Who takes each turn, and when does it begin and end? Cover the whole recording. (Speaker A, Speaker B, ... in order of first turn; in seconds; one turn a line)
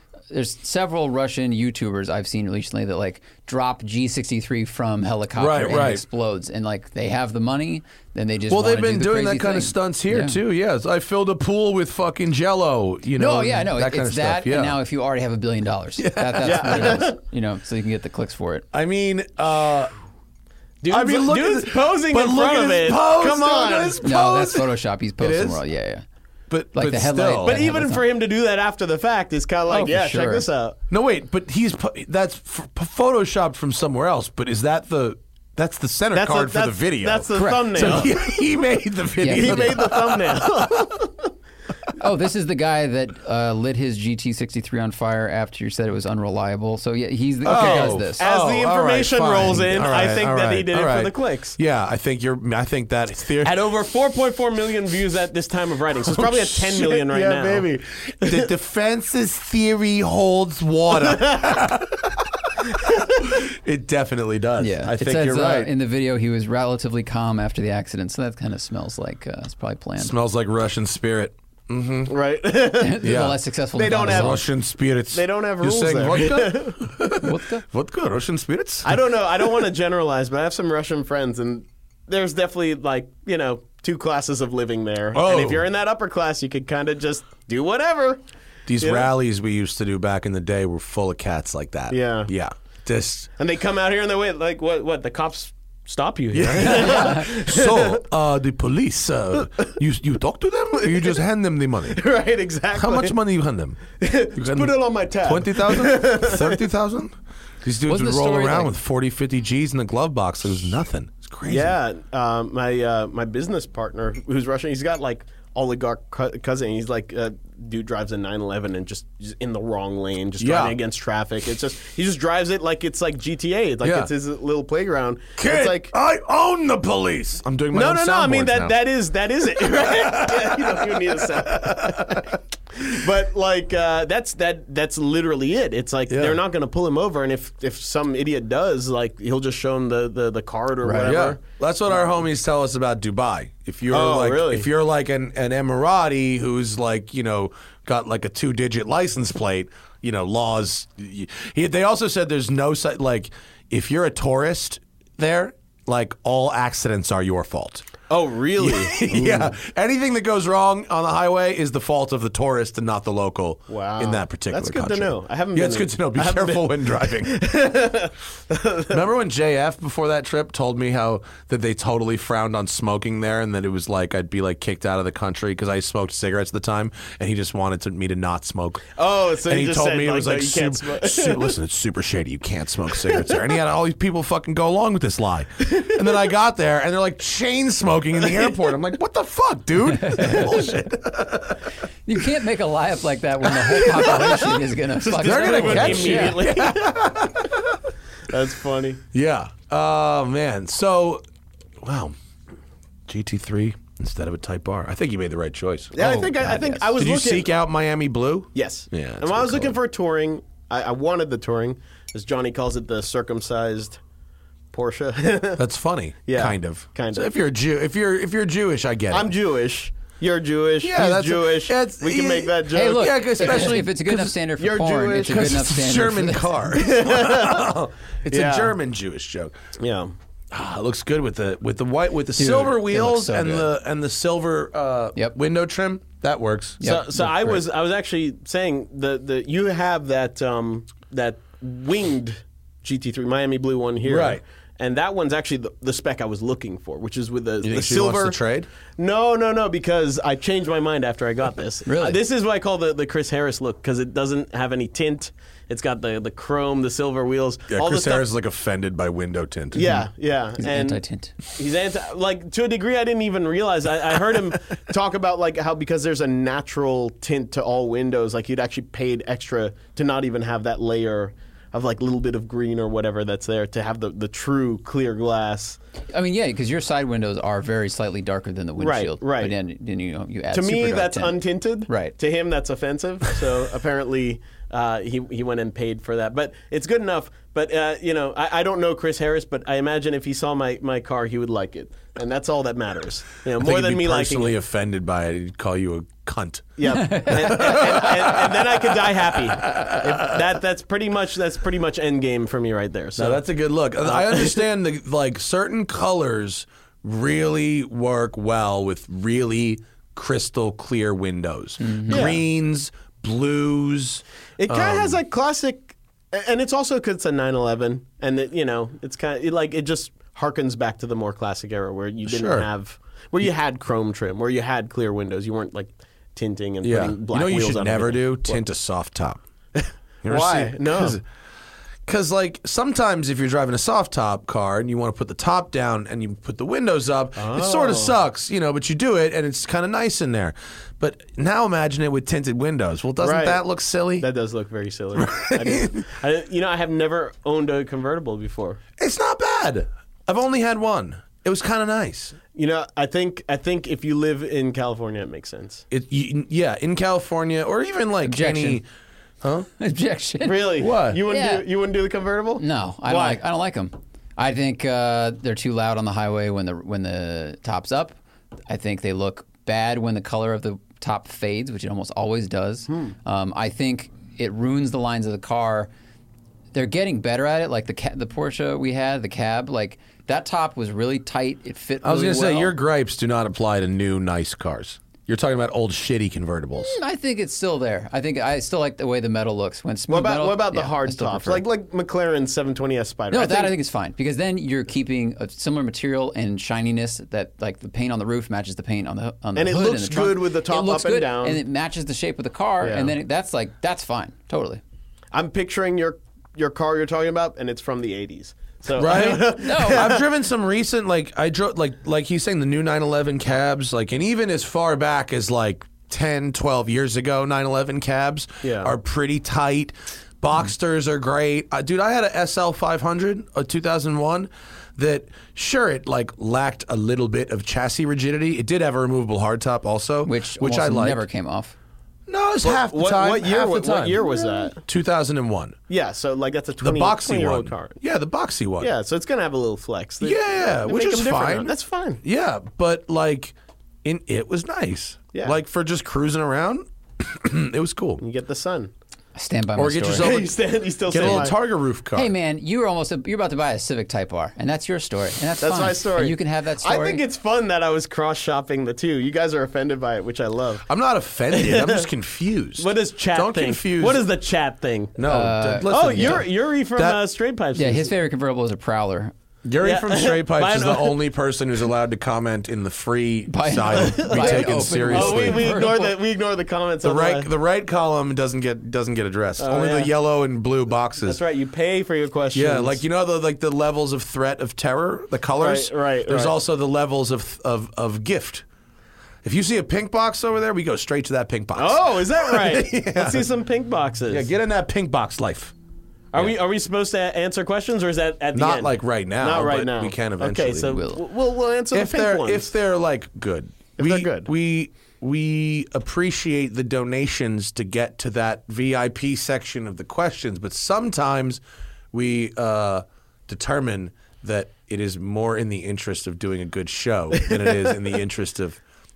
Speaker A: 0.3-10.4
Speaker B: 5.4-6.0
Speaker B: 8.5-14.8
Speaker A: 13.2-18.7
Speaker B: 16.0-17.1
Speaker C: 16.4-17.2
Speaker B: 18.7-19.9
Speaker C: 20.8-24.0
Speaker B: 20.9-24.7
Speaker A: 24.0-26.0
Speaker B: 25.2-25.6
Speaker B: 26.5-27.6
Speaker A: 26.7-28.1
Speaker C: 27.4-30.8
Speaker A: 29.7-30.5
Speaker B: 30.9-41.0
Speaker C: 36.1-38.2
Speaker A: 37.4-38.1
Speaker A: 39.2-39.9
Speaker C: 39.2-41.3
Speaker A: 42.0-48.2
Speaker C: 47.5-51.6
Speaker B: 47.5-53.6
Speaker C: 53.4-57.7
Speaker B: 56.1-65.7
Speaker C: 58.2-58.5
Speaker C: 61.1-61.4
Speaker A: 64.6-70.2
Speaker B: 70.0-72.2
Speaker C: 72.1-73.2
Speaker A: 72.8-74.4
Speaker B: 73.0-73.4
Speaker C: 73.8-74.4
Speaker B: 74.0-79.0
Speaker C: 75.1-76.8
Speaker A: 77.2-77.7
Speaker C: 78.8-88.2
Speaker B: 85.1-85.7
Speaker B: 88.7-93.3
Speaker C: 88.8-89.1
Speaker C: 91.9-92.3
Speaker C: 93.4-98.0
Speaker B: 96.3-102.0
Speaker A: 96.7-97.2
Speaker C: 100.8-101.2
Speaker C: 101.9-103.2
Speaker B: 102.7-111.8
Speaker C: 104.0-106.6
Speaker A: 107.9-108.7
Speaker C: 111.5-125.9
Speaker B: 120.4-120.8
Speaker B: 123.8-124.1
Speaker B: 125.4-128.8
Speaker C: 127.7-141.4
Speaker B: 129.4-132.4
Speaker B: 136.1-136.4
Speaker B: 141.0-157.9
Speaker C: 143.9-144.7
Speaker C: 158.1-159.5
Speaker B: 158.6-167.4
Speaker C: 163.7-169.0
Speaker B: 168.9-191.7
Speaker C: 178.9-181.6
Speaker C: 183.0-183.4
Speaker C: 188.2-188.5
Speaker A: 190.0-190.6
Speaker A: 192.1-196.4
Speaker C: 193.7-197.0
Speaker B: 193.9-194.4
Speaker B: 195.2-197.7
Speaker C: 198.3-199.0
Speaker B: 199.1-201.2
Speaker B: 201.8-202.2
Speaker B: 203.1-206.2
Speaker C: 205.9-207.5
Speaker A: 206.0-206.9
Speaker B: 207.0-209.8
Speaker C: 208.6-214.0
Speaker C: 214.7-215.6
Speaker B: 215.6-219.3
Speaker C: 216.3-217.3
Speaker C: 219.1-223.8
Speaker B: 220.8-224.3
Speaker A: 222.7-226.5
Speaker C: 224.6-225.5
Speaker B: 225.3-229.5
Speaker C: 226.7-227.7
Speaker C: 228.3-228.8
Speaker C: 229.8-230.1
Speaker B: 230.5-236.8
Speaker A: 232.4-233.7
Speaker A: 236.8-237.6
Speaker C: 236.8-248.4
Speaker B: 244.1-244.4
Speaker B: 247.6-248.7
Speaker C: 249.0-258.3
Speaker A: 251.9-252.2
Speaker B: 257.7-259.9
Speaker C: 259.7-275.8
Speaker A: 259.8-261.4
Speaker A: 276.1-282.2
Speaker C: 278.8-279.6
Speaker C: 280.5-294.6
Speaker B: 293.6-300.4
Speaker C: 296.8-303.4
Speaker A: 296.9-297.8
Speaker B: 303.2-315.2
Speaker C: 304.0-304.6
Speaker A: 311.8-312.3
Speaker C: 312.1-312.4
Speaker C: 314.6-328.6
Speaker B: 322.3-322.7
Speaker B: 326.8-329.4
Speaker B: 330.2-331.2
Speaker C: 330.3-331.2
Speaker B: 332.1-344.3
Speaker C: 337.4-338.2
Speaker C: 343.2-343.6
Speaker C: 344.2-348.8
Speaker B: 345.2-346.1
Speaker B: 349.0-352.4
Speaker C: 352.5-355.9
Speaker B: 355.9-358.8
Speaker A: 358.2-358.8
Speaker B: 359.4-359.7
Speaker A: 359.8-361.6
Speaker C: 360.4-363.4
Speaker B: 360.8-361.2
Speaker A: 362.6-368.2
Speaker A: 368.7-375.9
Speaker A: 376.7-382.7
Speaker B: 382.0-387.0
Speaker A: 386.8-391.6
Speaker C: 390.1-393.8
Speaker A: 393.3-404.8
Speaker C: 399.6-401.6
Speaker C: 402.8-403.1
Speaker C: 405.3-410.2
Speaker B: 408.9-431.2
Speaker A: 409.6-410.2
Speaker C: 418.6-418.9
Speaker A: 430.2-431.8
Speaker B: 432.3-435.8
Speaker C: 432.6-434.8
Speaker C: 435.9-438.0
Speaker B: 436.8-438.9
Speaker C: 438.8-442.2
Speaker B: 440.2-441.7
Speaker B: 442.2-448.2
Speaker C: 448.2-448.9
Speaker A: 449.4-450.3
Speaker B: 449.8-450.5
Speaker C: 450.1-451.5
Speaker B: 451.1-452.3
Speaker A: 451.2-451.5
Speaker A: 452.1-457.2
Speaker C: 455.6-460.9
Speaker B: 460.9-464.2
Speaker C: 461.5-462.1
Speaker C: 462.8-465.2
Speaker B: 465.2-467.2
Speaker A: 465.3-466.5
Speaker C: 465.9-468.1
Speaker A: 467.8-469.3
Speaker B: 469.6-475.8
Speaker C: 469.8-471.2
Speaker A: 473.5-476.1
Speaker C: 473.9-477.5
Speaker B: 477.0-481.4
Speaker C: 479.6-480.1
Speaker C: 481.2-483.0
Speaker B: 482.5-488.6
Speaker C: 485.6-486.6
Speaker B: 489.4-493.4
Speaker C: 491.8-494.5
Speaker B: 494.3-495.7
Speaker C: 496.3-502.7
Speaker B: 498.5-501.0
Speaker A: 500.9-501.2
Speaker B: 501.9-511.6
Speaker C: 504.0-504.5
Speaker B: 512.1-518.8
Speaker C: 517.4-517.9